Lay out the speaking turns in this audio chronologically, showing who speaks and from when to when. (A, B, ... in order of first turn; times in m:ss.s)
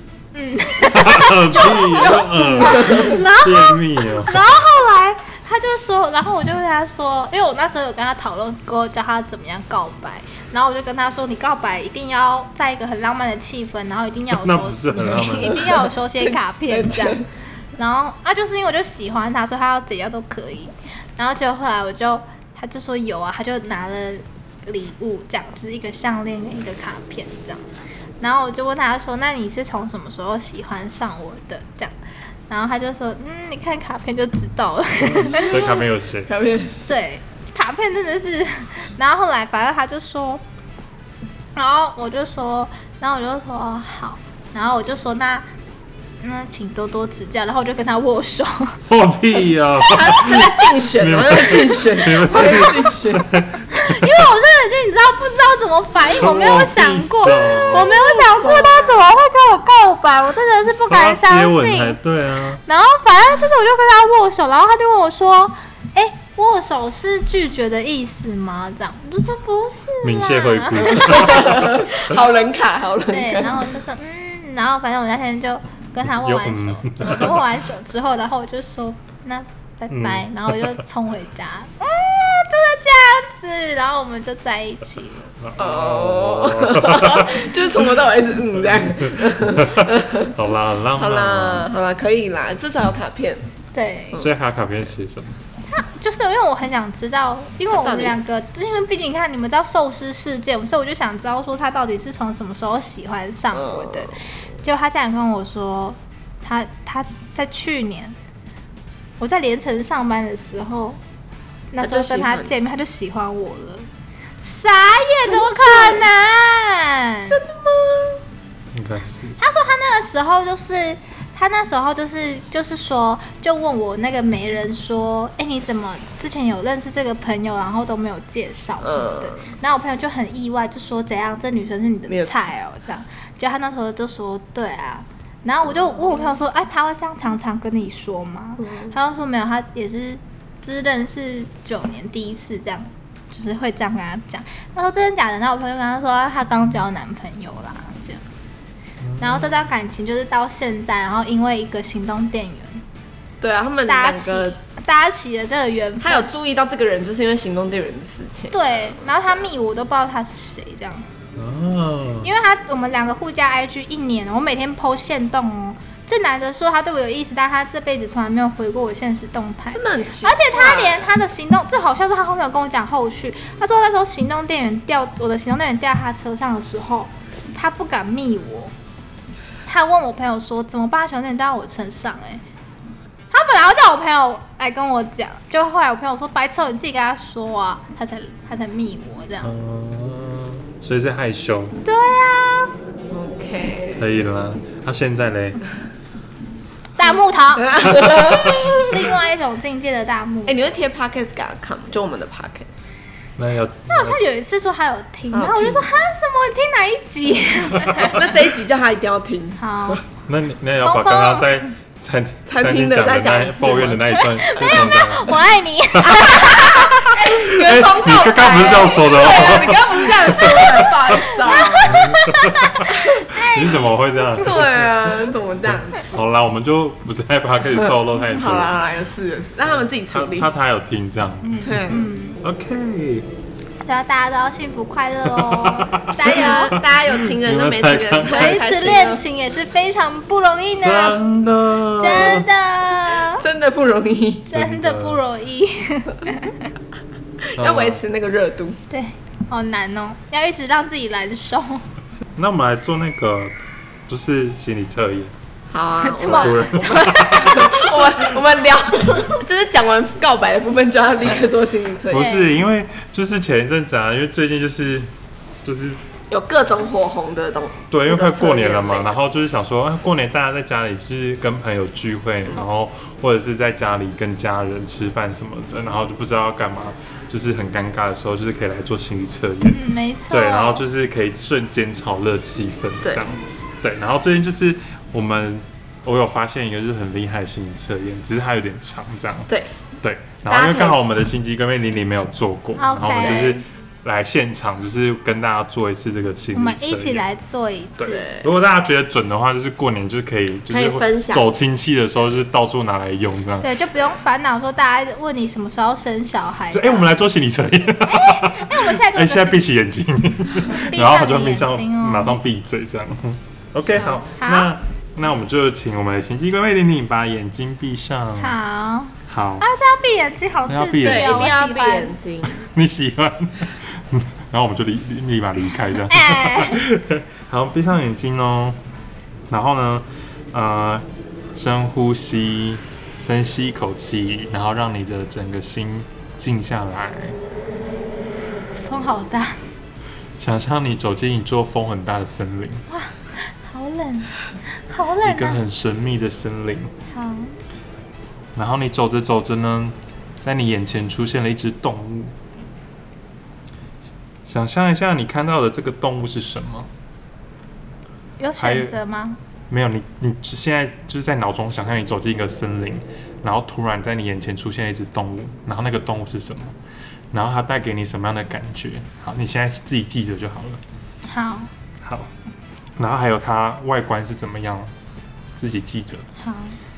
0:00.3-0:17.2 A
0:00.8-0:04.5 B
0:01.9-0:03.1 C
0:14.3-0:15.9 B
0:15.0-0:15.7 C
0:16.2-0:17.2 C
0:17.8-0:27.7 A
0:28.2-0:31.9 A
0:32.5-0:35.8 A
0:35.0-0:36.3 B
0:35.5-0:35.7 C
0:36.3-0:36.9 C
0:36.9-0:40.4 A
0:41.6-0:45.5 A
0:46.2-0:48.8 A
0:48.9-0:54.3 B
0:49.8-0:53.3 C
0:53.7-1:02.0 A
0:56.2-0:58.0 B
0:57.3-0:59.0 C
1:00.7-1:02.6 B
1:02.7-1:11.4 A
1:10.0-1:11.7 B
1:10.9-1:13.7 C
1:13.1-1:25.3 A
1:16.2-1:17.4 B
1:19.9-1:20.8 B
1:25.4-1:27.9 B
1:25.6-1:30.4 C
1:28.6-1:31.7 B
1:31.0-1:33.5 C
1:33.7-1:34.2 A
1:34.2-1:35.4 B
1:35.7-1:48.2 A
1:37.7-1:38.2 C
1:43.5-1:44.2 C
1:49.2-1:51.0 A
1:51.7-1:53.9 A
1:51.8-1:52.5 C
1:54.4-1:57.4 A
1:55.3-1:56.1 C
1:57.3-1:58.2 C
1:58.7-1:59.4 B
1:59.4-2:28.2 A
2:08.8-2:09.5 C
2:12.1-2:12.5 C
2:15.8-2:16.4 C
2:18.6-2:18.9 C
2:29.0-2:29.6 B
2:29.2-2:32.8 A
2:33.4-2:34.6 C
2:33.9-2:36.3 A
2:36.0-2:39.1 C
2:38.5-2:41.1 A
2:41.4-2:42.3 B
2:42.2-2:58.7 A
2:49.7-2:51.1 C
2:59.7-3:02.4 A
3:03.3-3:09.6 A
3:09.4-3:11.8 B
3:11.8-3:12.7 A
3:13.1-3:14.0 C
3:14.0-3:15.6 B
3:17.0-3:20.6 A
3:17.6-3:19.1 C
3:18.1-3:18.6 B
3:20.5-3:22.7 C
3:23.4-3:24.2 B
3:23.9-3:28.3 A
3:25.3-3:25.9 C
3:28.0-3:30.0 C
3:29.6-3:30.0 A
3:30.3-3:35.4 B
3:30.8-3:31.7 A
3:32.5-3:34.8 C
3:34.2-3:37.1 A
3:35.9-3:45.0 B
3:36.4-3:42.1 C
3:41.3-3:44.4 A
3:44.4-3:46.2 C
3:46.0-3:48.8 B
3:48.3-3:50.5 C
3:50.1-3:51.7 B
3:51.4-3:52.4 A
3:51.6-3:52.1 C
3:52.4-3:53.3 B
3:53.8-3:56.8 A
3:55.3-3:58.6 B
3:56.2-3:59.2 C
3:58.3-4:01.2 A
4:00.8-4:02.5 B
4:02.0-4:03.4 A
4:03.2-4:04.5 C
4:04.5-4:06.7 A
4:04.5-4:05.2 B
4:07.5-4:08.8 C
4:07.6-4:08.0 B
4:08.9-4:11.8 A
4:12.4-4:13.6 B
4:14.1-4:15.3 B
4:15.7-4:22.4 C
4:16.0-4:17.7 A
4:16.2-4:17.8 B
4:22.1-4:25.1 B
4:22.1-4:22.5 A
4:25.6-4:26.0 B
4:26.3-4:29.2 C
4:27.9-4:49.5 B
4:39.7-4:40.8 A
4:50.0-4:57.2 B
4:50.5-4:51.0 C
4:52.8-4:53.6 A
4:53.1-4:53.6 C
4:56.5-4:58.2 A
4:58.0-4:58.5 C
4:58.0-5:03.7 B
5:00.7-5:01.5 C
5:03.6-5:07.1 A
5:06.7-5:18.6 B
5:08.0-5:09.6 A
5:10.7-5:12.4 A
5:14.0-5:14.2 C
5:14.4-5:14.7 A
5:18.4-5:22.1 A
5:19.3-5:19.7 B
5:20.7-5:21.5 B
5:21.0-5:22.6 C
5:22.4-5:28.8 B
5:26.1-5:26.8 A
5:29.5-5:37.4 B
5:38.8-5:39.6 A
5:40.4-5:42.8 B
5:42.9-5:45.6 A
5:45.2-5:46.9 B
5:47.1-5:47.5 A
5:48.6-5:52.4 B
5:54.5-5:56.9 B
5:58.4-5:59.4 A
5:58.6-5:59.0 B
5:59.7-6:06.8 B
6:07.3-6:10.8 B
6:11.3-6:11.7 A
6:12.0-6:12.3 B
6:13.0-6:14.9 B
6:15.6-6:16.3 B
6:16.4-6:16.8 A